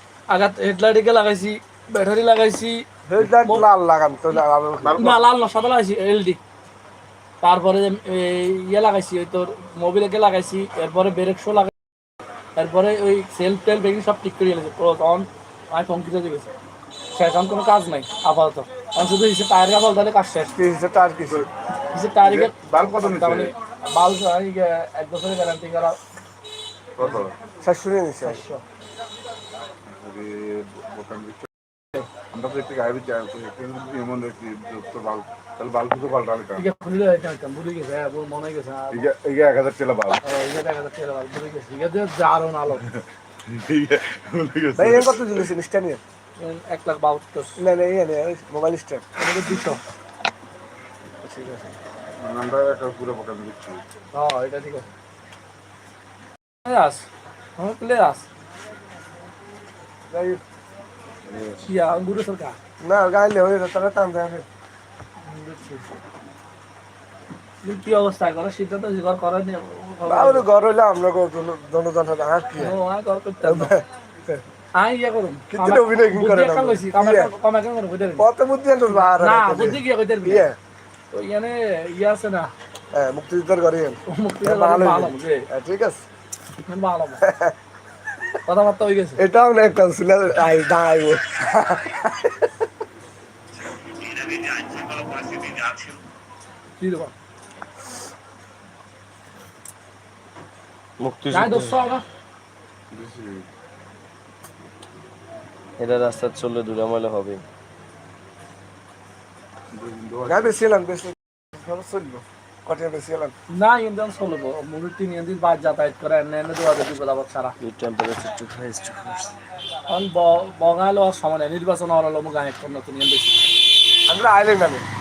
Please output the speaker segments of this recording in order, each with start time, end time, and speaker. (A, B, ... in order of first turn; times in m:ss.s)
0:00.3-0:03.7 A
0:03.1-0:05.1 B
0:04.8-0:05.2 C
0:05.0-0:06.4 A
0:07.4-0:11.7 A
0:12.6-0:16.5 A
0:17.2-0:20.6 A
0:20.5-0:21.5 B
0:21.9-0:26.0 A
0:22.2-0:23.5 C
0:27.0-0:27.3 C
0:27.0-0:27.2 A
0:27.6-0:28.4 B
0:28.2-0:28.6 A
0:29.9-0:31.5 C
0:32.3-0:36.7 C
0:36.6-0:39.1 A
0:38.9-0:40.2 C
0:40.2-0:42.8 A
0:42.8-0:45.5 C
0:44.8-0:46.0 B
0:46.4-0:47.6 A
0:47.6-0:49.0 B
0:49.2-0:49.8 A
0:51.2-0:51.7 A
0:52.2-0:53.8 C
0:54.1-0:54.9 A
0:56.6-0:57.1 A
0:57.6-0:58.2 A
1:00.1-1:00.4 B
1:01.3-1:01.6 C
1:01.7-1:02.6 A
1:02.8-1:04.5 B
1:05.2-1:05.9 A
1:07.6-1:10.5 A
1:10.0-1:12.8 B
1:12.6-1:13.7 A
1:13.4-1:14.4 B
1:14.8-1:18.3 A
1:15.5-1:17.3 B
1:18.2-1:20.6 B
1:18.9-1:20.5 A
1:21.1-1:22.5 A
1:22.9-1:26.0 B
1:24.1-1:25.5 A
1:26.6-1:27.3 A
1:27.2-1:27.6 B
1:28.4-1:29.2 A
1:29.2-1:32.5 B
1:36.8-1:37.1 A
1:41.0-1:41.8 D
1:41.3-1:42.0 A
1:42.9-1:43.5 C
1:45.8-1:47.4 D
1:49.7-1:50.6 C
1:50.3-1:53.3 B
1:53.5-1:57.6 A
1:57.6-1:59.3 D
1:59.9-2:03.4 A
2:04.1-2:04.9 B